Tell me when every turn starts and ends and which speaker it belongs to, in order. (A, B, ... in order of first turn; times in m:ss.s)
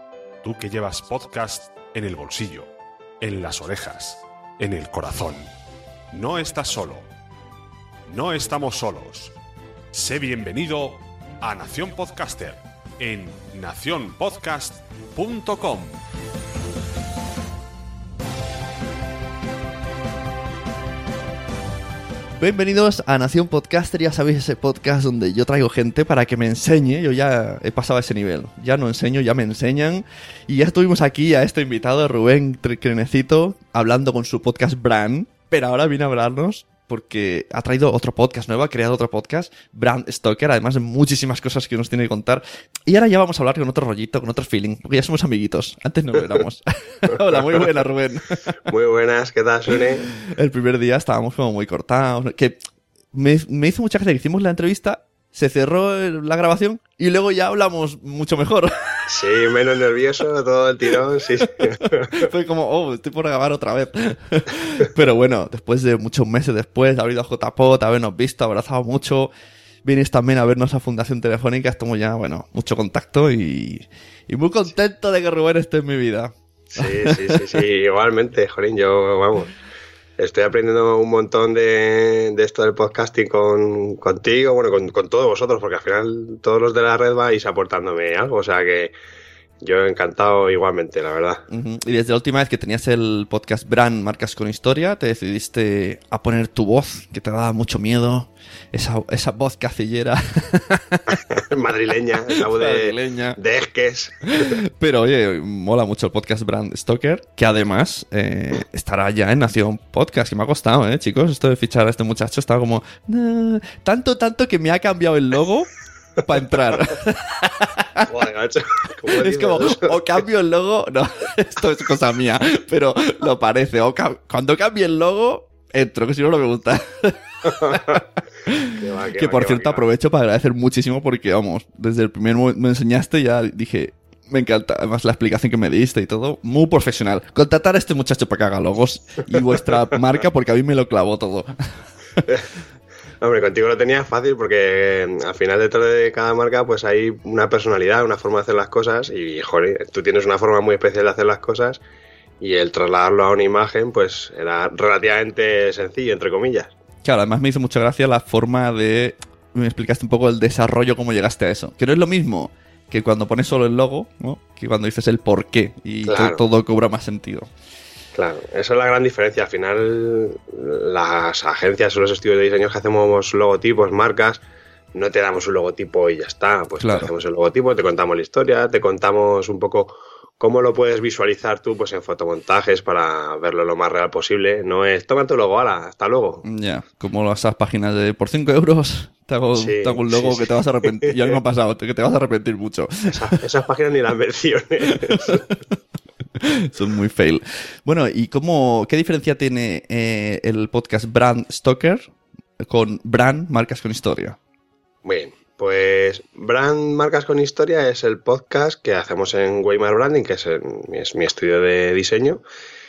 0:00.4-0:02.7 A
0:03.2-0:05.5 A
0:06.1-0:07.1 A
0:08.1-0:09.3 A
0:09.9-0:16.0 A
0:22.4-0:48.5 B
0:47.1-0:47.7 C
0:48.7-0:50.1 C
0:50.1-0:52.6 B
0:53.1-0:59.1 B
0:59.1-1:02.3 C
1:01.7-1:09.3 B
1:09.8-1:17.6 B
1:16.7-1:19.5 C
1:20.2-1:28.9 C
1:29.6-1:31.4 C
1:31.5-1:41.2 B
1:41.3-1:44.5 C
1:42.3-1:43.4 B
1:44.3-1:55.7 B
1:56.2-1:58.1 B
1:58.1-2:00.0 C
1:59.1-2:21.5 B
2:07.4-2:08.0 C
2:08.6-2:09.8 C
2:23.2-2:31.8 C
2:32.4-2:36.7 C
2:37.0-2:47.5 B
2:46.1-2:46.4 C
2:48.1-2:54.4 C
2:54.9-3:06.4 C
2:56.8-2:57.1 B
3:06.4-3:13.3 B
3:09.6-3:11.4 C
3:13.1-3:15.5 C
3:15.1-3:15.4 B
3:16.4-3:22.1 B
3:22.6-3:24.4 B
3:25.0-3:32.4 C